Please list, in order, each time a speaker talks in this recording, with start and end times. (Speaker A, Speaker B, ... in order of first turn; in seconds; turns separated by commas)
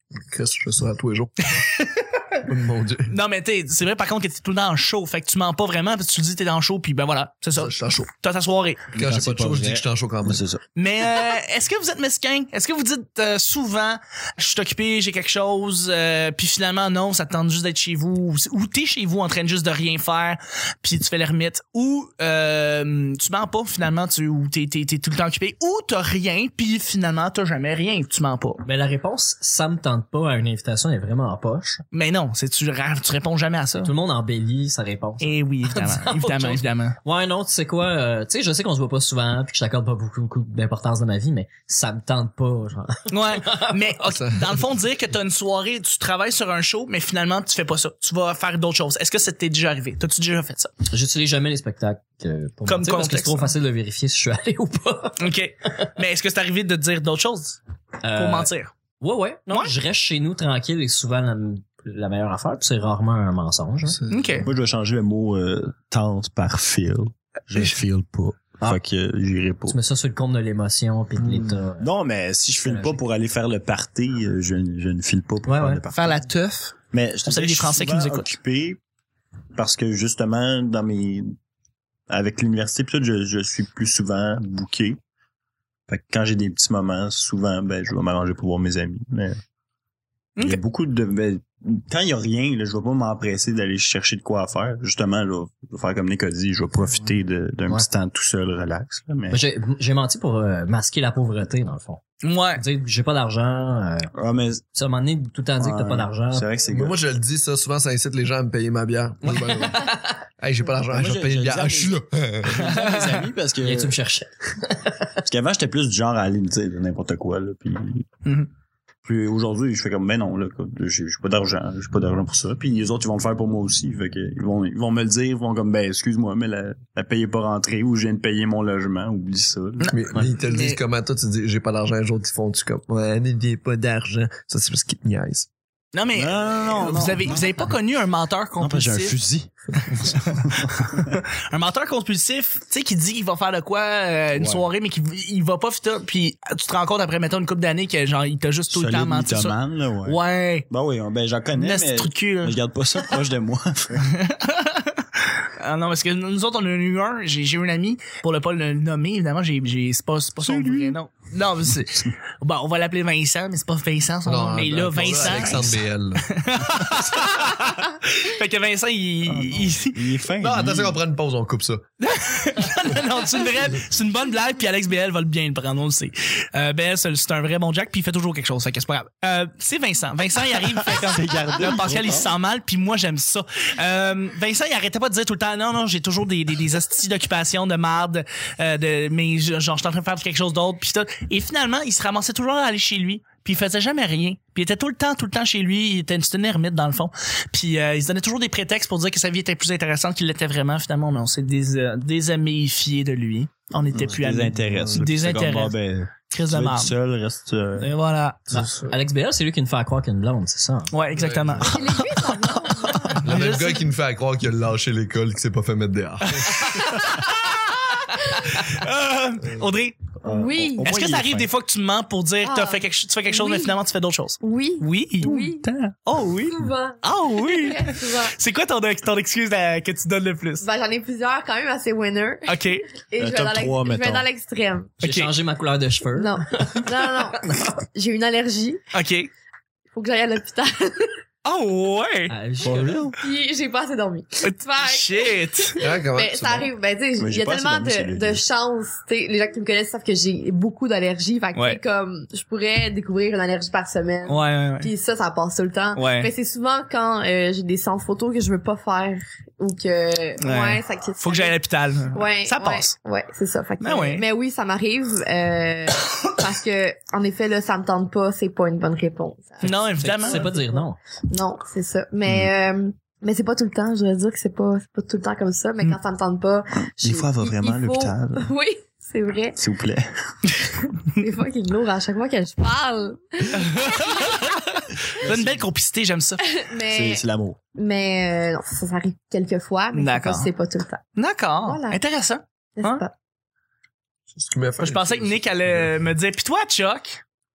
Speaker A: 0.2-1.7, Speaker B: 1.5-2.2, Speaker A: 2.4-3.1, Speaker B: 3.1-8.8, Speaker A: 7.5-8.1, Speaker A: 8.9-10.4, Speaker C: 8.9-10.6, Speaker B: 10.8-28.6, Speaker D: 28.6-31.8, Speaker B: 31.9-33.9, Speaker D: 33.8-43.9, Speaker B: 35.2-37.0, Speaker B: 43.1-50.7, Speaker A: 44.1-44.5, Speaker D: 50.9-55.3, Speaker B: 52.7-53.5, Speaker B: 55.2-57.6, Speaker D: 58.0-64.0, Speaker B: 58.1-58.7, Speaker A: 63.9-64.5, Speaker B: 64.1-64.5, Speaker C: 64.4-69.8, Speaker D: 69.7-71.9, Speaker C: 71.8-76.2, Speaker D: 72.6-73.0, Speaker D: 75.5-75.8, Speaker B: 75.9-78.3, Speaker C: 76.9-78.8, Speaker C: 79.5-81.3, Speaker C: 82.1-85.0, Speaker C: 85.9-89.4, Speaker B: 90.3-90.6, Speaker C: 90.4-99.4, Speaker D: 99.3-102.0, Speaker B: 102.2-102.6, Speaker D: 102.5-104.1, Speaker C: 104.1-104.6, Speaker D: 104.7-106.5, Speaker C: 105.6-107.0, Speaker A: 106.7-112.7, Speaker D: 109.2-110.1, Speaker C: 110.9-113.9, Speaker B: 112.6-113.2, Speaker D: 113.6-115.2, Speaker C: 115.2-118.1, Speaker C: 119.0-130.2, Speaker B: 129.8-130.8, Speaker A: 129.9-135.5, Speaker B: 135.9-139.2, Speaker C: 136.1-137.7, Speaker C: 138.6-141.2, Speaker B: 139.8-150.7, Speaker C: 144.3-144.7, Speaker C: 148.7-154.1, Speaker B: 151.6-153.2, Speaker B: 154.0-170.2, Speaker C: 160.4-160.9, Speaker A: 164.2-166.3, Speaker C: 169.3-171.0, Speaker A: 170.4-171.8, Speaker B: 172.0-205.8, Speaker C: 180.7-182.3, Speaker C: 204.0-207.9, Speaker B: 206.3-206.9, Speaker B: 207.8-208.9, Speaker D: 208.5-210.9, Speaker B: 210.9-213.8, Speaker A: 211.1-211.8, Speaker E: 211.6-213.2, Speaker A: 213.2-216.8, Speaker B: 216.2-220.0, Speaker C: 220.2-221.5, Speaker E: 220.2-220.9, Speaker B: 220.8-230.7, Speaker E: 222.4-223.8, Speaker E: 224.4-225.6, Speaker E: 226.5-228.3, Speaker E: 230.6-234.9, Speaker B: 232.4-232.9, Speaker C: 233.2-234.3, Speaker B: 235.0-235.3, Speaker D: 235.0-236.9, Speaker E: 236.2-238.8, Speaker D: 237.4-237.7, Speaker B: 238.9-239.3, Speaker E: 239.9-241.1, Speaker B: 241.4-242.3, Speaker D: 242.3-243.1, Speaker C: 242.6-243.2, Speaker E: 243.2-261.6, Speaker B: 244.4-245.8, Speaker A: 245.8-246.7, Speaker C: 247.2-248.4, Speaker B: 251.5-251.8, Speaker B: 254.2-254.9, Speaker B: 255.9-256.3, Speaker B: 260.4-262.9, Speaker E: 262.1-279.6, Speaker B: 263.8-264.2, Speaker B: 269.6-270.5, Speaker D: 270.0-271.0, Speaker C: 272.2-272.5, Speaker C: 277.0-278.5, Speaker C: 279.6-280.5, Speaker E: 280.9-284.6, Speaker B: 283.5-286.4, Speaker C: 285.2-285.7, Speaker E: 286.4-287.2, Speaker C: 286.9-287.6, Speaker E: 287.8-291.0, Speaker B: 289.9-290.5, Speaker B: 291.1-293.0, Speaker E: 291.6-292.0, Speaker E: 292.8-293.1, Speaker A: 294.4-295.9, Speaker B: 294.8-297.2